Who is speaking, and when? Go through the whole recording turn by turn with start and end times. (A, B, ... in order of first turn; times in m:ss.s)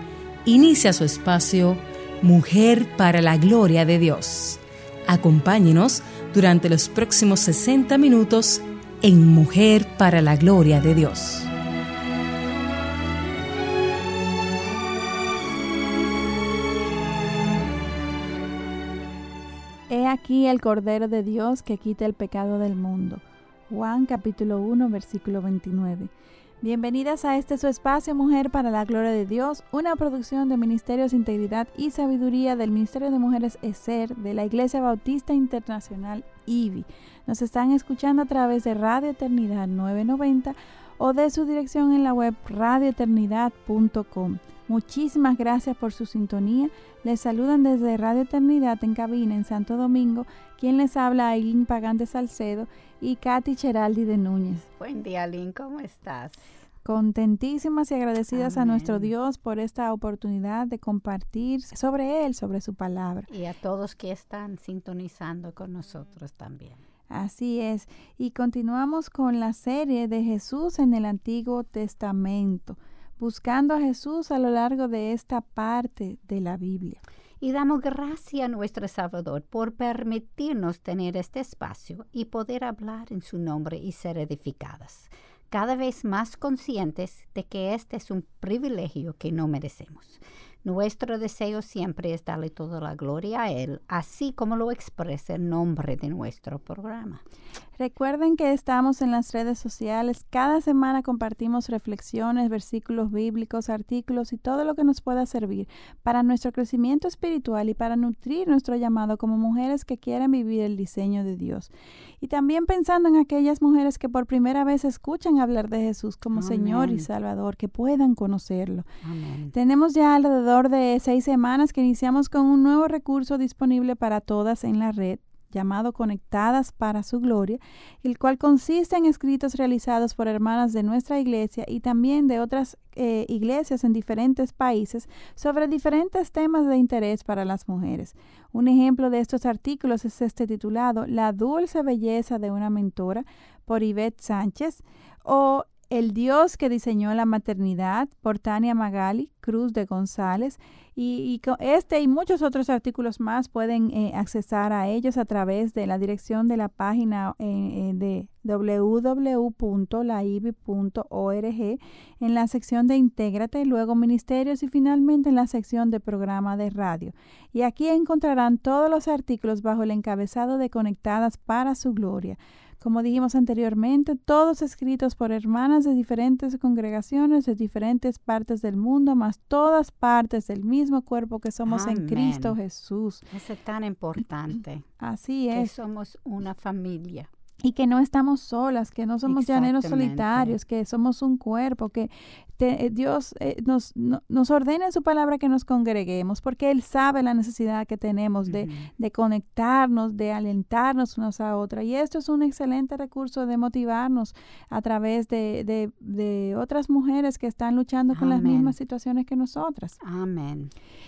0:00.4-0:11.5 A
0:19.9-0:26.1 B
0:26.6-0:54.7 B
0:54.8-0:56.4 C
0:56.8-1:03.3 B
0:58.3-0:59.1 C
1:03.3-1:06.8 C
1:07.1-1:17.0 B
1:17.4-1:37.2 C
1:37.8-1:58.9 B
1:56.3-1:57.1 C
1:59.0-1:59.6 C
1:59.5-3:03.2 B
3:01.7-3:02.6 C
3:03.3-3:04.9 C
3:05.0-3:05.7 B
3:05.5-3:07.3 C
3:07.6-3:30.0 B
3:09.3-3:10.6 C
3:18.5-3:18.9 C
3:28.1-3:28.8 C
3:30.0-3:30.7 C